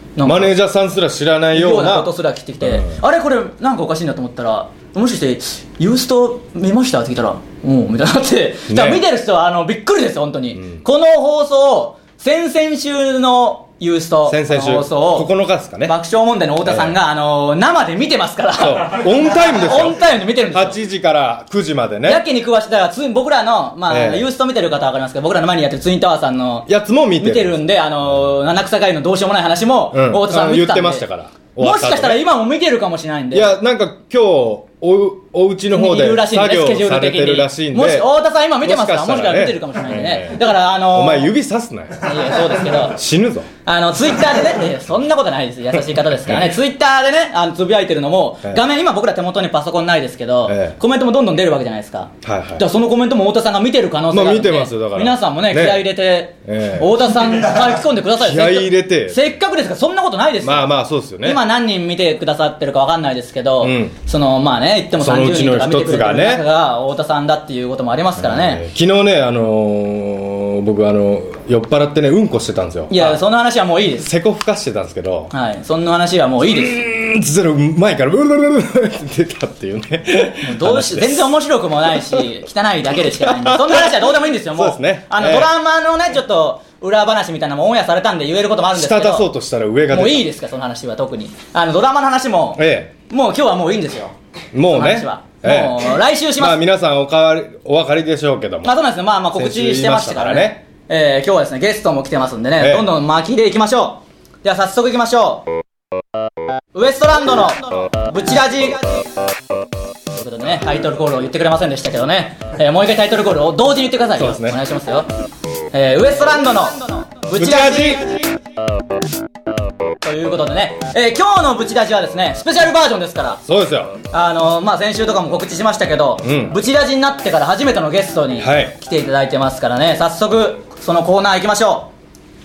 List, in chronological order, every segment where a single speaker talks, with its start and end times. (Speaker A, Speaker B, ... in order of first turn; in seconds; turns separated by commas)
Speaker A: 0.1-0.5, Speaker B: 0.2-3.0, Speaker A: 1.5-15.3, Speaker B: 8.7-9.0, Speaker B: 14.3-15.9, Speaker A: 15.8-20.8, Speaker B: 16.6-16.9, Speaker B: 18.6-22.2, Speaker A: 22.0-31.1, Speaker B: 23.9-24.3, Speaker B: 26.7-27.6, Speaker B: 29.9-32.2, Speaker A: 31.6-33.5, Speaker B: 33.3-43.5, Speaker A: 35.7-41.3, Speaker A: 42.0-43.0, Speaker A: 43.6-68.6, Speaker B: 45.7-46.5, Speaker B: 50.5-50.8, Speaker B: 52.2-52.6, Speaker B: 54.1-55.9, Speaker B: 56.4-57.0, Speaker B: 58.2-59.3, Speaker B: 60.4-61.4, Speaker B: 63.6-63.9, Speaker B: 64.9-66.4, Speaker B: 68.2-73.2, Speaker A: 72.9-74.1, Speaker B: 74.0-75.3, Speaker A: 75.3-76.8, Speaker B: 76.4-81.3, Speaker A: 80.4-89.3, Speaker B: 83.2-85.5, Speaker B: 88.7-90.3, Speaker A: 89.9-96.6, Speaker B: 92.6-92.9, Speaker B: 94.5-98.7, Speaker A: 98.6-105.5, Speaker B: 99.3-100.6, Speaker B: 102.6-102.9, Speaker A: 106.7-109.1, Speaker A: 110.1-115.1, Speaker B: 114.2-114.6, Speaker A: 115.7-118.2, Speaker B: 117.3-118.2, Speaker A: 120.0-123.4, Speaker B: 123.4-124.0, Speaker A: 124.1-131.9, Speaker B: 126.2-126.6, Speaker B: 128.4-128.8